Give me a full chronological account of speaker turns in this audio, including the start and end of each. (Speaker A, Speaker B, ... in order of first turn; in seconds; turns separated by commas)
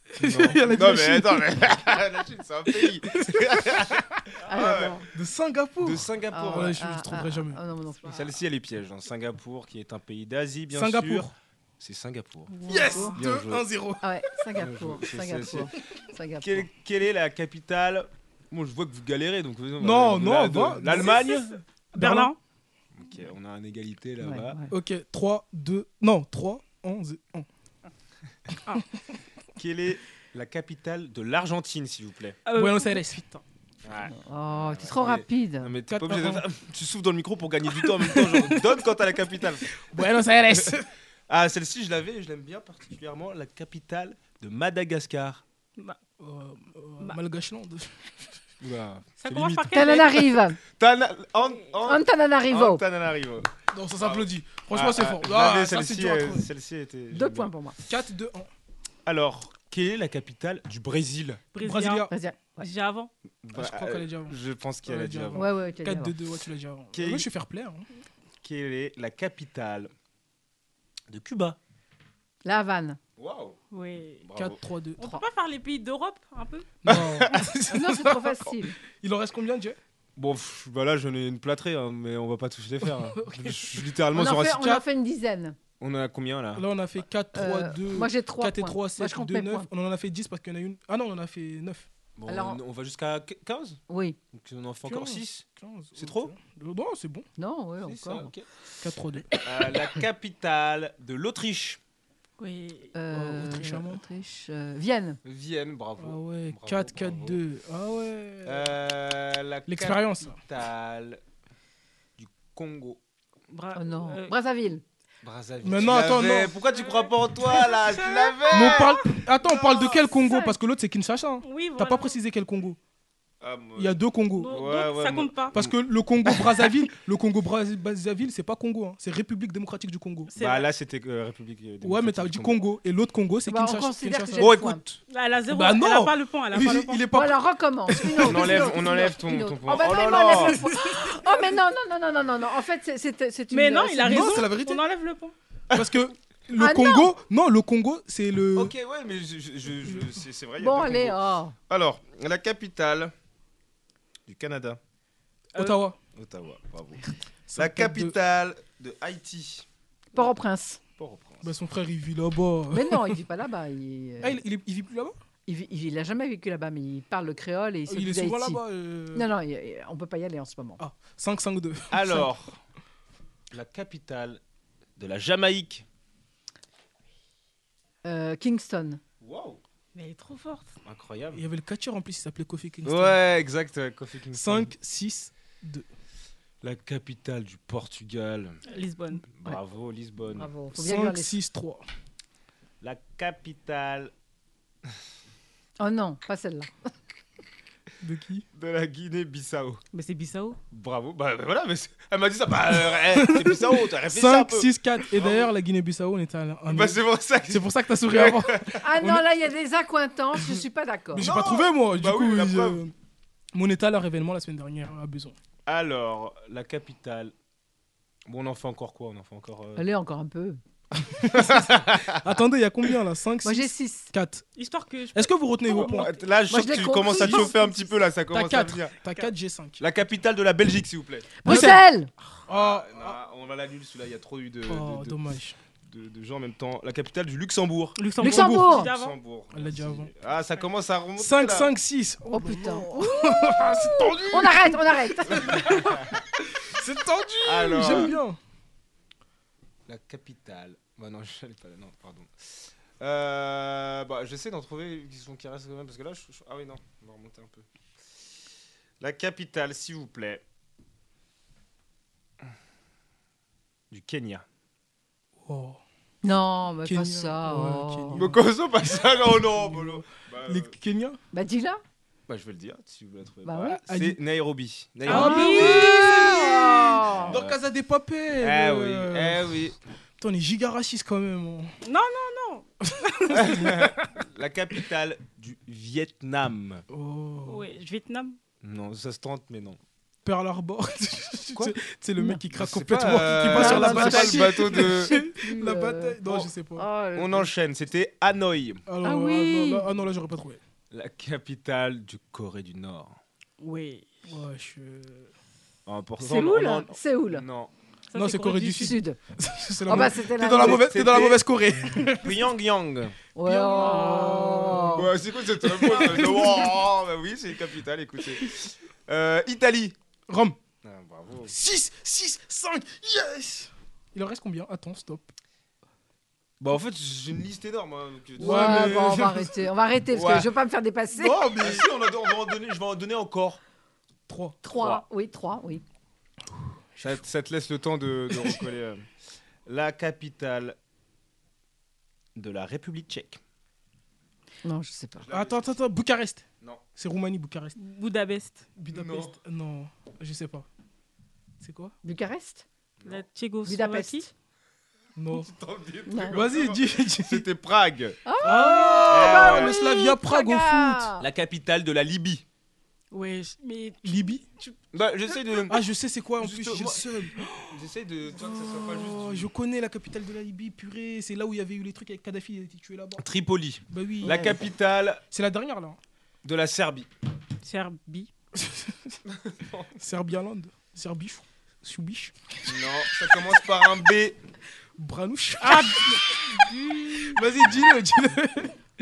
Speaker A: 0.1-1.5, Speaker B: 0.2-5.0, Speaker A: 2.8-4.0, Speaker C: 4.5-5.0, Speaker A: 5.1-7.6, Speaker B: 5.8-6.8, Speaker C: 6.3-8.3, Speaker B: 8.0-12.5, Speaker A: 10.7-11.3, Speaker D: 12.5-13.2, Speaker A: 12.7-14.0, Speaker B: 13.1-13.7, Speaker C: 14.0-16.7, Speaker B: 14.6-15.7, Speaker B: 16.4-21.5, Speaker A: 19.8-22.3, Speaker D: 21.0-21.4, Speaker D: 21.9-22.4, Speaker B: 22.9-24.6, Speaker C: 24.2-24.7, Speaker A: 24.7-27.5, Speaker B: 29.6-32.4, Speaker D: 32.5-33.2, Speaker A: 32.5-33.4, Speaker B: 33.8-39.7, Speaker C: 34.1-35.8, Speaker A: 35.9-36.4, Speaker A: 38.1-38.6, Speaker A: 39.8-40.9, Speaker B: 40.5-40.8, Speaker B: 41.3-45.4, Speaker A: 46.2-48.3, Speaker B: 48.6-50.1, Speaker D: 49.2-50.3, Speaker C: 49.7-50.6, Speaker B: 50.8-57.5, Speaker C: 51.8-52.8, Speaker A: 53.7-56.5, Speaker C: 57.1-57.8, Speaker A: 57.9-58.5, Speaker B: 59.0-61.4, Speaker D: 61.5-62.1, Speaker A: 61.6-62.1, Speaker C: 62.1-62.7, Speaker D: 62.6-63.1, Speaker B: 63.4-65.5, Speaker A: 63.5-67.9, Speaker C: 65.3-66.1, Speaker B: 66.9-67.3, Speaker B: 68.4-69.9, Speaker B: 71.1-71.6, Speaker C: 72.4-73.0, Speaker B: 73.2-73.6, Speaker D: 73.7-74.3, Speaker B: 74.2-74.6, Speaker A: 74.3-75.1, Speaker D: 75.0-76.7, Speaker A: 76.8-79.8, Speaker B: 76.9-77.5, Speaker C: 77.7-78.7, Speaker B: 80.2-84.8, Speaker A: 83.1-83.8, Speaker C: 84.1-85.5, Speaker A: 84.5-84.8, Speaker B: 85.8-86.7, Speaker A: 86.5-91.9, Speaker C: 87.3-89.7, Speaker B: 92.2-93.8, Speaker C: 92.3-92.6, Speaker C: 93.9-94.2, Speaker B: 94.3-96.3, Speaker A: 94.8-97.3, Speaker C: 97.4-98.3, Speaker B: 97.8-98.5, Speaker A: 98.8-99.3, Speaker B: 99.4-101.8, Speaker D: 102.4-102.9, Speaker C: 102.9-105.2, Speaker A: 103.1-104.0, Speaker B: 105.2-107.4, Speaker A: 106.0-108.7, Speaker B: 108.4-111.2, Speaker A: 109.7-110.4, Speaker B: 112.2-113.0, Speaker D: 113.5-114.3, Speaker C: 113.7-114.8, Speaker B: 115.2-119.0, Speaker A: 115.6-116.6, Speaker D: 116.7-120.6, Speaker A: 118.5-122.8, Speaker D: 121.4-122.2, Speaker B: 123.4-126.7, Speaker A: 123.8-124.6, Speaker D: 124.4-125.5, Speaker A: 125.5-130.3, Speaker D: 130.3-130.7, Speaker B: 130.3-132.6, Speaker A: 131.8-134.6, Speaker C: 133.5-134.8, Speaker B: 134.4-135.0, Speaker D: 135.1-137.1, Speaker A: 135.5-138.7, Speaker C: 137.1-144.4, Speaker B: 138.2-140.6, Speaker D: 143.5-145.3, Speaker A: 144.0-144.8, Speaker A: 145.7-148.7, Speaker C: 146.6-147.1, Speaker B: 148.5-153.1, Speaker C: 150.6-151.5, Speaker B: 154.2-154.8, Speaker D: 155.6-155.9, Speaker A: 155.6-155.9, Speaker B: 156.1-157.0, Speaker A: 157.5-158.1, Speaker B: 157.5-159.7, Speaker C: 160.1-160.8, Speaker B: 161.0-161.5, Speaker A: 161.4-163.2, Speaker C: 162.7-164.4, Speaker A: 164.2-165.2, Speaker C: 165.4-168.6, Speaker A: 167.9-169.3, Speaker C: 169.1-170.8, Speaker A: 170.8-172.3, Speaker B: 171.9-172.6, Speaker B: 173.5-174.4, Speaker B: 175.0-175.8, Speaker C: 178.0-179.0, Speaker B: 179.2-179.6, Speaker D: 179.9-180.7, Speaker B: 180.8-181.4, Speaker A: 181.3-183.2, Speaker B: 182.8-184.7, Speaker A: 184.3-185.8, Speaker B: 186.6-188.6, Speaker D: 188.7-189.3, Speaker B: 189.3-190.5, Speaker C: 190.3-191.3, Speaker A: 190.7-191.8, Speaker B: 192.8-194.1, Speaker C: 195.8-196.7, Speaker A: 198.0-198.4, Speaker B: 198.5-199.8, Speaker D: 199.9-200.6, Speaker B: 200.7-205.5, Speaker A: 203.1-209.2, Speaker B: 206.7-208.8, Speaker C: 208.8-211.2, Speaker A: 211.1-212.9, Speaker B: 211.1-212.8, Speaker A: 213.5-215.3, Speaker B: 215.7-217.3, Speaker B: 218.2-219.8, Speaker C: 219.8-220.6, Speaker A: 221.0-224.5, Speaker B: 221.3-222.2, Speaker C: 223.4-224.1, Speaker D: 224.5-226.3, Speaker A: 225.1-226.1, Speaker B: 225.8-228.9, Speaker C: 226.5-228.0, Speaker A: 227.2-227.5, Speaker A: 228.3-229.8, Speaker B: 229.8-231.4, Speaker C: 231.4-232.1, Speaker A: 231.4-231.8, Speaker A: 232.5-233.2, Speaker B: 232.5-235.2, Speaker A: 234.7-235.6, Speaker B: 235.8-241.7, Speaker D: 238.0-239.2, Speaker C: 238.2-238.9, Speaker A: 238.2-238.5, Speaker A: 239.5-240.1, Speaker A: 241.2-248.4, Speaker C: 242.3-243.6, Speaker C: 244.3-246.0, Speaker B: 245.6-245.9, Speaker B: 247.4-248.2, Speaker B: 249.9-257.6, Speaker B: 259.0-260.4, Speaker B: 263.9-264.4, Speaker A: 265.4-265.8, Speaker C: 266.2-268.2, Speaker A: 266.8-268.4, Speaker B: 268.1-270.7, Speaker A: 269.6-271.2, Speaker C: 271.3-271.8, Speaker B: 272.3-276.2, Speaker C: 273.4-273.8, Speaker A: 273.9-274.2, Speaker D: 275.1-276.9, Speaker A: 275.1-276.6, Speaker C: 275.1-277.4, Speaker B: 276.9-277.6, Speaker A: 277.3-279.5, Speaker B: 278.4-279.8, Speaker A: 280.2-281.7, Speaker D: 281.8-282.7, Speaker A: 283.2-283.8, Speaker B: 283.3-286.8, Speaker A: 286.9-287.6, Speaker D: 287.4-288.4, Speaker B: 288.6-289.8, Speaker A: 290.2-296.8, Speaker C: 292.2-292.4, Speaker B: 292.5-295.1, Speaker C: 293.5-297.5, Speaker B: 297.1-298.8, Speaker A: 298.9-300.6, Speaker C: 299.0-299.9, Speaker B: 300.9-303.2, Speaker D: 303.6-304.2, Speaker A: 304.2-305.3, Speaker B: 305.9-307.7, Speaker C: 306.2-307.4, Speaker D: 308.1-308.9, Speaker A: 308.1-312.3, Speaker C: 308.6-309.2, Speaker C: 309.9-310.9, Speaker B: 310.6-311.4, Speaker B: 312.1-313.1, Speaker C: 313.3-315.1, Speaker A: 313.4-315.0, Speaker D: 313.8-314.7, Speaker B: 314.9-319.9, Speaker A: 315.9-316.4, Speaker A: 320.3-320.6, Speaker B: 320.8-321.5, Speaker A: 321.5-325.3, Speaker B: 326.6-329.2, Speaker A: 328.4-329.6, Speaker C: 328.4-331.4, Speaker B: 330.1-330.5, Speaker A: 331.1-331.9, Speaker B: 331.4-333.6, Speaker A: 334.3-334.6, Speaker C: 334.6-335.8, Speaker B: 334.8-335.0, Speaker A: 336.9-337.2, Speaker B: 337.0-339.1, Speaker B: 339.6-340.8, Speaker B: 342.4-343.4, Speaker C: 344.6-345.3, Speaker B: 345.2-345.7, Speaker A: 345.3-346.4, Speaker A: 347.0-347.8, Speaker D: 347.8-348.7, Speaker A: 348.7-350.7, Speaker B: 348.9-349.4, Speaker A: 351.6-351.9, Speaker C: 352.0-352.6, Speaker B: 353.0-353.3, Speaker D: 353.1-354.3, Speaker C: 353.6-354.3, Speaker A: 355.2-355.5, Speaker B: 355.3-358.2, Speaker C: 356.1-356.4, Speaker A: 356.3-357.4, Speaker C: 358.2-361.2, Speaker A: 358.4-361.1, Speaker B: 359.1-359.8, Speaker B: 361.2-362.4, Speaker D: 363.1-364.8, Speaker A: 364.0-364.4, Speaker B: 364.9-369.5, Speaker A: 365.7-367.5, Speaker A: 368.8-373.2, Speaker B: 373.2-375.2, Speaker A: 373.9-374.6, Speaker A: 375.3-376.0, Speaker B: 376.4-377.1, Speaker D: 377.6-378.3, Speaker A: 378.6-379.1, Speaker B: 379.3-380.0, Speaker A: 380.0-382.6, Speaker B: 382.6-384.4, Speaker A: 385.0-388.8, Speaker D: 385.6-387.4